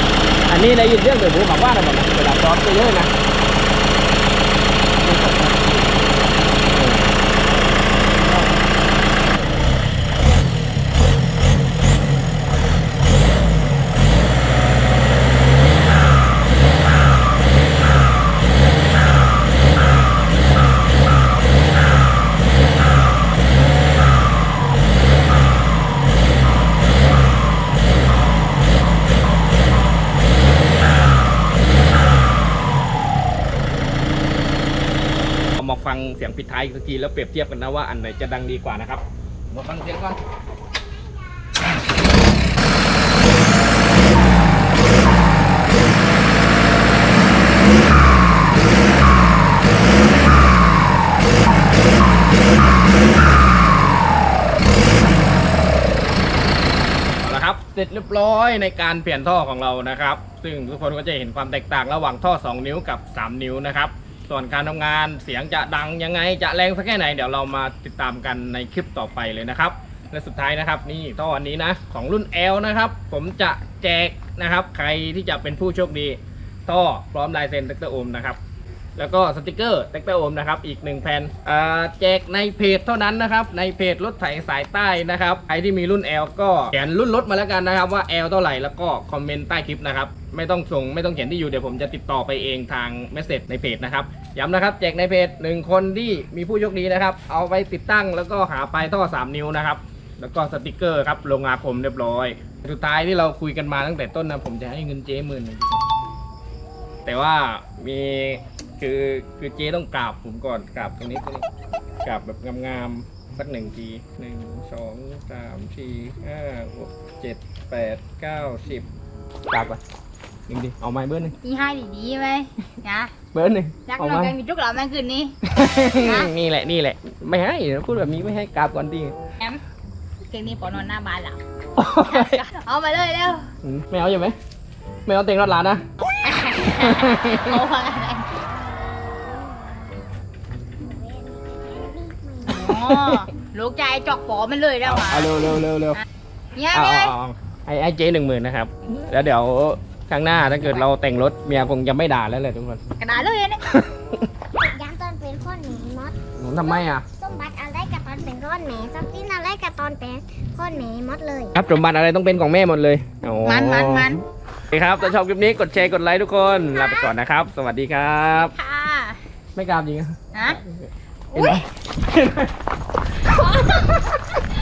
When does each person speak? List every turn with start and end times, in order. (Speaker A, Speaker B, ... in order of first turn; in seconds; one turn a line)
Speaker A: 0.5-3.1
Speaker A: 5.0-5.8
Speaker A: 6.7-7.1
Speaker A: 35.6-40.2
Speaker A: 57.2-78.4
Speaker A: 79.0-105.8
Speaker A: 107.0-111.5
Speaker A: 112.0-118.9
Speaker A: 119.5-119.8
Speaker A: 120.5-121.3
Speaker B: 121.4-123.1
Speaker A: 123.3-124.3
Speaker B: 123.9-125.4
Speaker A: 125.5-129.2
Speaker B: 126.0-126.3
Speaker B: 130.3-131.4
Speaker A: 131.8-132.4
Speaker B: 132.0-133.5
Speaker A: 133.6-134.4
Speaker A: 135.1-135.8
Speaker B: 136.1-138.3
Speaker A: 136.5-137.6
Speaker C: 140.8-142.7
Speaker B: 142.5-145.4
Speaker A: 142.7-143.2
Speaker A: 144.8-146.0
Speaker B: 146.6-147.1
Speaker A: 146.7-152.8
Speaker B: 153.0-153.8
Speaker A: 153.7-154.2
Speaker C: 154.6-156.2
Speaker A: 156.4-157.1
Speaker C: 157.1-161.6
Speaker A: 161.5-164.2
Speaker B: 163.4-164.2
Speaker A: 164.7-168.5
Speaker B: 168.3-169.2
Speaker A: 169.6-172.6
Speaker B: 171.3-171.6
Speaker A: 173.2-174.3
Speaker B: 173.4-173.9